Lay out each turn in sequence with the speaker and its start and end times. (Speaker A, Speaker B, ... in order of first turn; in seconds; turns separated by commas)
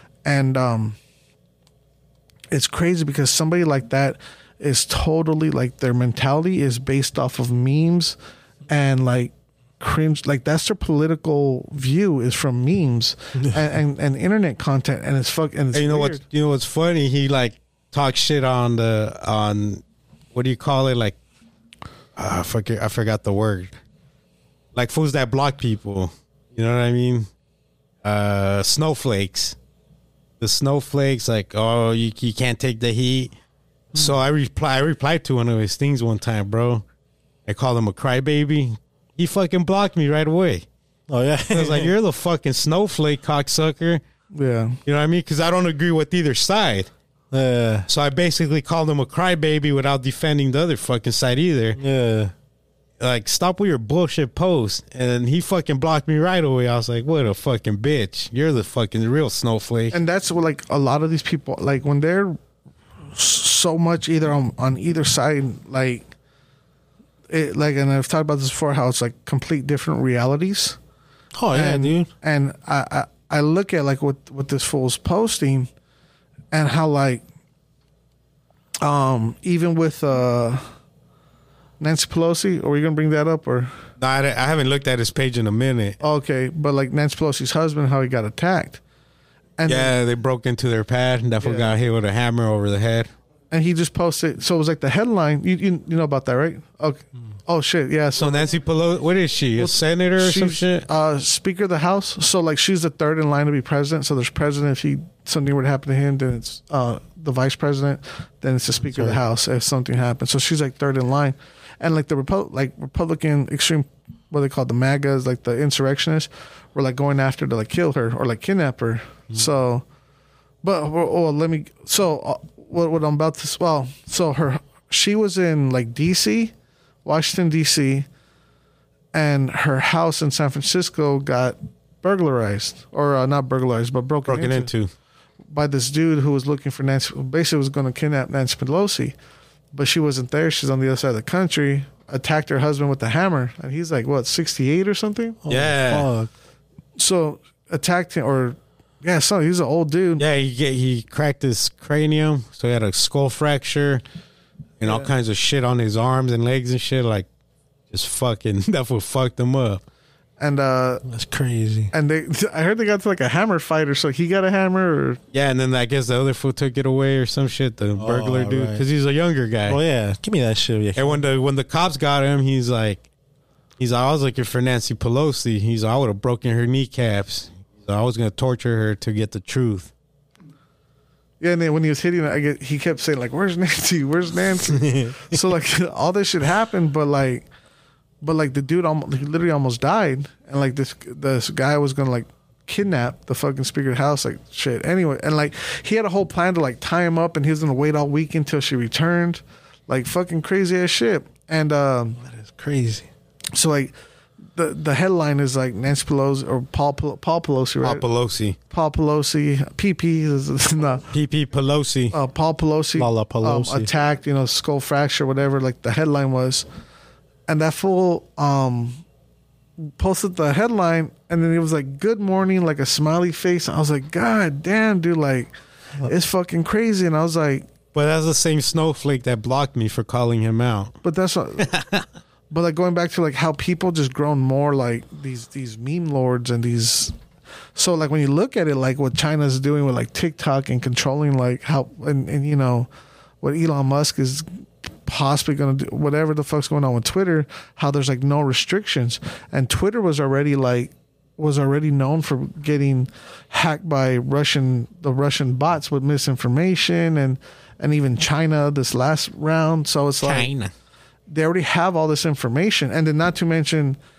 Speaker A: 0.2-1.0, Speaker A: 2.5-8.2, Speaker A: 8.7-16.2, Speaker B: 15.7-21.2, Speaker B: 22.1-23.7, Speaker B: 24.7-27.3, Speaker B: 28.0-29.6, Speaker B: 30.4-33.3, Speaker B: 33.9-36.8, Speaker B: 37.5-40.6, Speaker C: 41.1-41.9, Speaker B: 41.5-44.0, Speaker A: 44.3-44.8, Speaker B: 44.9-46.9, Speaker C: 47.3-47.9, Speaker B: 47.9-51.8, Speaker C: 51.8-52.3, Speaker B: 53.0-60.0, Speaker A: 59.9-62.4, Speaker A: 63.1-66.1, Speaker A: 67.3-70.8, Speaker C: 71.3-72.1, Speaker A: 71.5-75.7, Speaker A: 76.5-77.2, Speaker A: 78.8-80.6, Speaker A: 81.8-83.7, Speaker B: 84.0-86.0, Speaker A: 86.0-88.8, Speaker A: 89.6-89.9, Speaker B: 89.7-93.1, Speaker A: 91.4-91.7, Speaker A: 93.5-98.5, Speaker B: 98.2-100.9, Speaker A: 99.6-119.8, Speaker C: 108.8-109.2, Speaker A: 120.6-126.5, Speaker A: 127.0-128.1, Speaker A: 129.1-134.7, Speaker B: 134.3-134.9, Speaker A: 135.5-139.1, Speaker A: 139.7-145.4, Speaker C: 145.4-146.3, Speaker B: 145.5-146.1, Speaker A: 147.0-150.2, Speaker B: 150.2-154.0, Speaker B: 154.8-157.3, Speaker A: 154.8-155.1, Speaker B: 157.9-159.8, Speaker A: 160.4-161.0, Speaker C: 161.1-161.9, Speaker A: 161.9-165.2, Speaker B: 165.3-169.8, Speaker C: 167.9-168.8, Speaker C: 169.7-171.2, Speaker B: 170.9-173.0, Speaker B: 173.8-179.9, Speaker A: 181.4-187.5, Speaker C: 184.7-185.3, Speaker A: 188.2-202.2, Speaker C: 202.2-203.1, Speaker A: 203.5-203.9, Speaker A: 204.5-208.0, Speaker B: 207.8-208.6, Speaker A: 208.7-211.0, Speaker B: 211.1-212.1, Speaker A: 212.1-216.7, Speaker C: 213.0-213.9, Speaker A: 217.5-219.0, Speaker A: 219.8-227.7, Speaker B: 227.9-231.0, Speaker A: 231.0-231.7, Speaker B: 231.6-232.1, Speaker A: 232.5-237.1, Speaker A: 237.7-242.9, Speaker A: 243.4-260.5, Speaker B: 260.2-260.7, Speaker A: 261.3-264.0